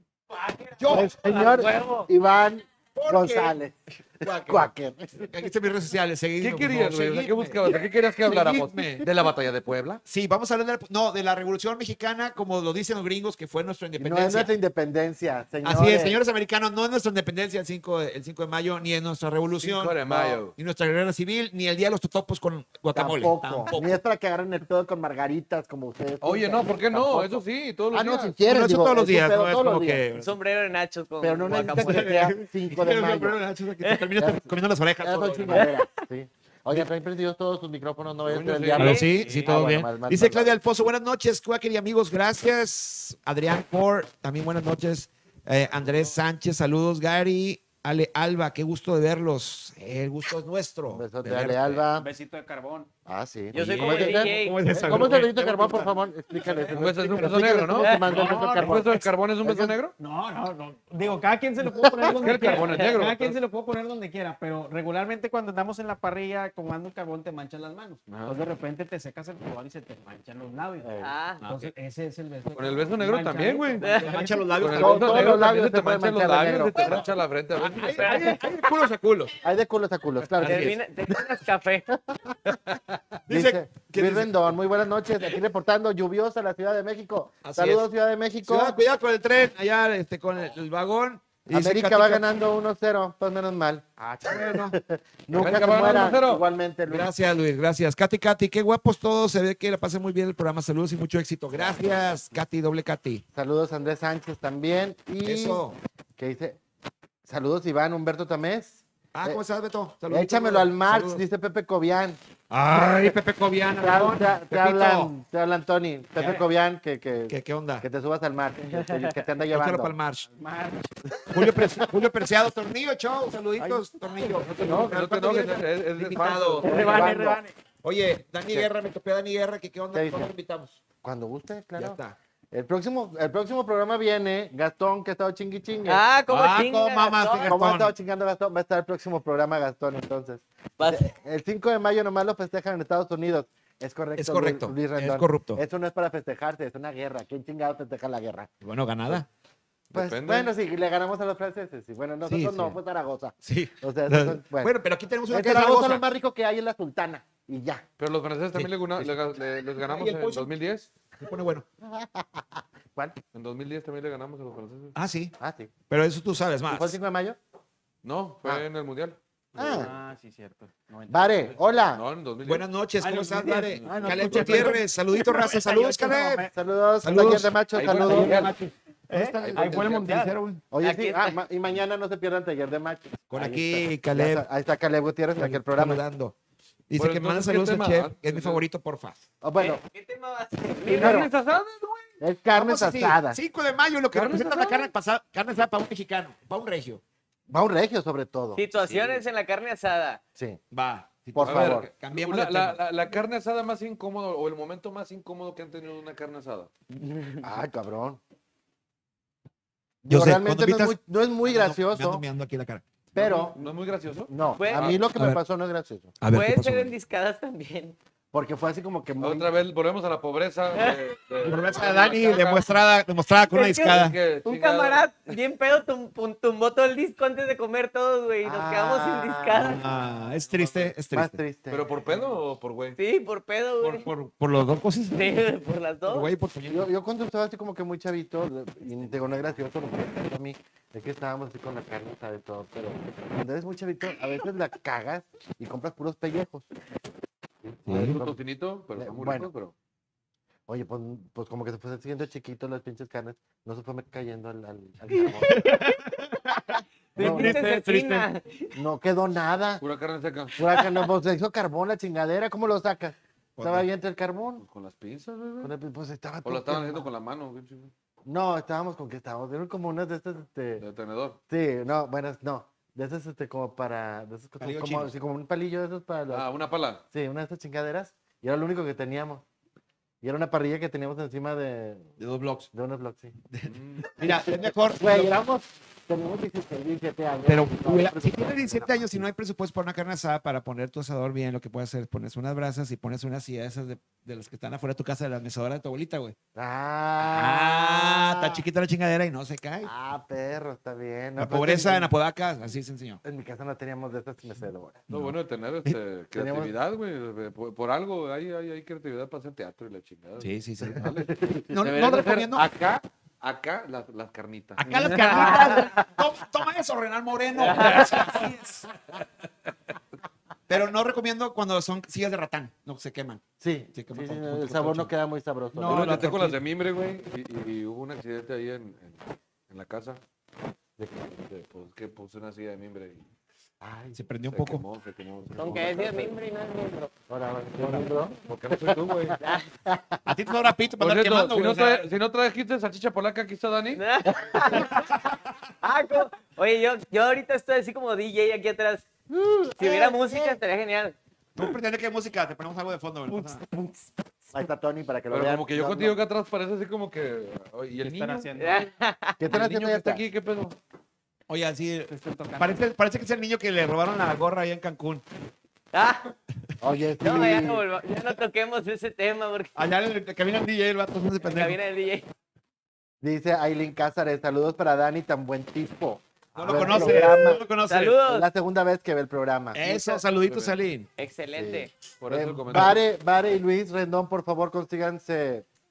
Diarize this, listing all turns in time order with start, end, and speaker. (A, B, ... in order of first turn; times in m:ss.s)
0:00.3-0:02.1 A
0:00.8-0:01.1 B
0:00.9-0:05.3 C
0:02.9-0:03.6 B
0:04.2-0:07.6 B
0:06.4-0:10.0 D
0:08.3-0:09.0 B
0:10.0-0:14.5 B
0:14.0-0:16.2 C
0:15.6-0:24.0 B
0:19.6-0:20.6 D
0:20.1-0:20.4 C
0:22.9-0:30.0 C
0:26.2-0:28.4 D
0:28.4-0:30.3 B
0:30.1-0:32.3 A
0:31.2-0:33.4 C
0:31.5-0:35.7 B
0:34.1-0:40.6 C
0:35.5-0:36.0 A
0:38.2-0:39.1 D
0:38.8-0:51.8 B
0:38.8-0:39.1 A
0:39.0-0:39.6 E
0:50.9-0:52.1 C
0:51.9-0:52.9 E
0:53.0-0:59.7 C
0:53.5-0:55.8 B
0:53.5-0:54.9 A
0:54.9-0:55.2 D
0:55.6-0:56.8 E
0:56.7-0:59.9 D
0:56.7-0:57.7 B
0:58.0-0:58.8 E
1:00.0-1:14.5 E
1:01.7-1:02.2 C
1:02.1-1:03.4 D
1:02.6-1:02.9 A
1:08.1-1:08.4 D
1:10.8-1:11.1 C
1:11.0-1:11.5 A
1:11.4-1:11.7 B
1:12.6-1:18.3 D
1:13.8-1:14.1 A
1:14.0-1:15.5 B
1:14.6-1:17.1 C
1:16.7-1:19.4 B
1:18.0-1:18.4 A
1:19.4-1:20.8 C
1:20.4-1:21.9 A
1:20.4-1:20.7 B
1:23.2-1:24.5 B
1:23.3-1:28.8 C
1:27.4-1:27.9 B
1:28.4-1:32.2 B
1:31.5-1:37.1 C
1:34.2-1:34.8 B
1:35.3-1:36.4 D
1:35.4-1:35.9 B
1:36.9-1:43.2 B
1:41.5-1:42.0 C
1:43.3-1:45.6 C
1:45.2-1:45.8 B
1:46.2-1:46.6 C
1:47.2-1:49.4 C
1:49.1-1:51.2 B
1:50.1-1:52.2 C
1:52.5-1:55.1 B
1:52.8-1:53.1 C
1:53.8-1:59.9 C
1:57.3-1:57.8 B
1:58.8-1:59.1 A
1:59.5-2:00.3 B
2:00.3-2:01.0 E
2:01.2-2:01.9 C
2:01.3-2:07.0 B
2:03.6-2:03.8 E
2:04.4-2:07.1 D
2:06.6-2:07.5 E
2:06.7-2:07.4 C
2:07.8-2:10.8 B
2:09.9-2:10.3 C
2:11.0-2:12.0 C
2:11.8-2:12.2 B
2:12.5-2:16.0 C
2:15.8-2:17.5 A
2:16.3-2:17.9 B
2:17.5-2:28.5 C
2:20.8-2:21.1 A
2:24.2-2:25.6 B
2:28.6-2:29.2 B
2:29.9-2:30.5 D
2:29.9-2:34.7 C
2:32.2-2:32.8 B
2:33.4-2:36.0 B
2:35.3-2:37.8 C
2:38.0-2:40.9 D
2:39.8-2:40.5 B
2:41.2-2:41.6 B
2:41.8-2:43.2 C
2:43.3-2:45.0 D
2:44.9-2:45.3 B
2:45.4-2:45.7 C
2:45.9-2:47.0 B
2:46.7-2:47.4 C
2:48.0-2:49.2 D
2:49.6-2:49.9 C
2:49.6-2:51.6 E
2:51.1-2:52.0 C
2:51.9-2:52.7 D
2:52.4-2:56.4 B
2:53.0-2:56.5 E
2:53.7-2:54.7 D
2:56.5-2:58.4 C
2:57.0-3:00.6 B
2:57.7-2:58.5 D
2:59.1-3:00.4 E
2:59.4-3:00.0 D
3:00.7-3:06.0 C
3:00.8-3:01.4 A
3:03.3-3:04.4 B
3:05.3-3:06.3 B
3:06.9-3:09.2 B
3:06.9-3:08.6 D
3:09.4-3:09.8 C
3:09.6-3:11.3 A
3:10.8-3:12.1 D
3:10.9-3:11.3 C
3:12.2-3:13.4 C
3:12.5-3:17.0 B
3:14.1-3:14.9 D
3:17.5-3:18.6 C
3:18.5-3:20.2 A
3:18.8-3:19.2 D
3:20.7-3:22.8 B
3:21.3-3:21.9 C
3:21.4-3:26.7 D
3:26.9-3:27.5 A
3:27.4-3:28.2 C
3:30.0-3:32.2 C
3:30.1-3:32.8 B
3:33.1-3:33.6 C
3:33.1-3:35.0 D
3:34.3-3:36.2 C
3:34.6-3:35.0 A
3:35.1-3:35.4 B
3:36.2-3:36.9 B
3:36.3-3:38.0 A
3:38.3-3:39.5 C
3:39.2-3:42.8 D
3:41.4-3:44.2 B
3:43.5-3:49.9 A
3:43.9-3:45.0 D
3:48.4-3:50.3 C
3:49.5-3:51.4 B
3:51.1-3:51.8 C
3:51.7-3:53.0 D
3:53.0-3:54.1 A
3:53.8-3:55.4 B
3:55.1-3:56.3 A
3:56.1-3:56.9 B
3:56.7-4:06.7 C
4:07.6-4:08.4 C
4:07.9-4:08.2 B
4:07.9-4:09.7 D
4:09.0-4:09.5 C
4:10.7-4:15.7 C
4:15.2-4:18.3 B
4:17.2-4:18.7 A
4:17.2-4:17.6 C
4:18.7-4:19.8 C
4:19.8-4:20.5 D
4:20.6-4:24.6 C
4:23.6-4:23.8 B
4:24.6-4:25.7 D
4:25.6-4:27.1 C
4:26.4-4:27.9 D
4:28.2-4:30.8 C
4:30.8-4:31.4 D
4:31.5-4:36.5 C
4:34.6-4:35.1 B
4:36.3-4:37.0 D
4:37.1-4:39.4 C
4:40.2-4:42.1 C
4:42.2-4:42.7 B
4:42.7-4:43.4 C
4:43.5-4:45.4 B
4:43.7-4:44.2 D
4:44.2-4:49.2 C
4:47.4-4:56.4 B
4:56.5-4:58.6 C
4:57.2-4:59.9 B
4:59.8-5:02.1 C
5:01.4-5:03.2 B
5:03.2-5:05.0 C
5:05.1-5:06.0 B
5:05.1-5:14.8 D
5:06.3-5:06.7 C
5:10.4-5:11.0 B
5:11.0-5:11.7 C
5:11.7-5:12.7 B
5:14.8-5:18.9 B
5:14.9-5:16.0 A
5:17.5-5:18.5 A
5:20.7-5:25.1 B
5:23.6-5:26.3 C
5:25.7-5:26.6 B
5:25.8-5:30.2 D
5:31.0-5:31.3 C
5:31.1-5:33.3 D
5:33.8-5:34.2 C
5:34.1-5:34.8 B
5:34.5-5:36.3 D
5:35.6-5:37.1 A
5:37.3-5:40.2 C
5:37.9-5:39.4 D
5:39.4-5:39.7 A
5:40.2-5:42.0 B
5:41.0-5:44.0 D
5:43.9-5:45.2 A
5:44.4-5:44.8 C
5:45.8-5:49.1 A
5:49.3-5:50.6 C
5:49.8-5:51.2 A
5:51.5-5:53.6 B
5:53.3-5:56.2 C
5:55.3-5:58.5 D
5:58.0-5:58.8 E
5:58.6-5:59.4 A
5:59.4-6:00.2 C
5:59.4-6:00.8 D
6:01.5-6:05.2 B
6:02.1-6:02.8 E
6:05.9-6:06.3 A
6:06.8-6:07.8 C
6:07.2-6:09.8 A
6:09.8-6:11.8 B
6:11.4-6:12.3 A
6:13.2-6:17.7 C
6:16.5-6:18.2 B
6:16.7-6:18.5 A
6:18.2-6:20.1 C
6:19.7-6:21.1 B
6:20.4-6:20.7 D
6:21.2-6:21.9 A
6:21.6-6:25.6 C
6:22.2-6:23.0 D
6:22.7-6:23.0 B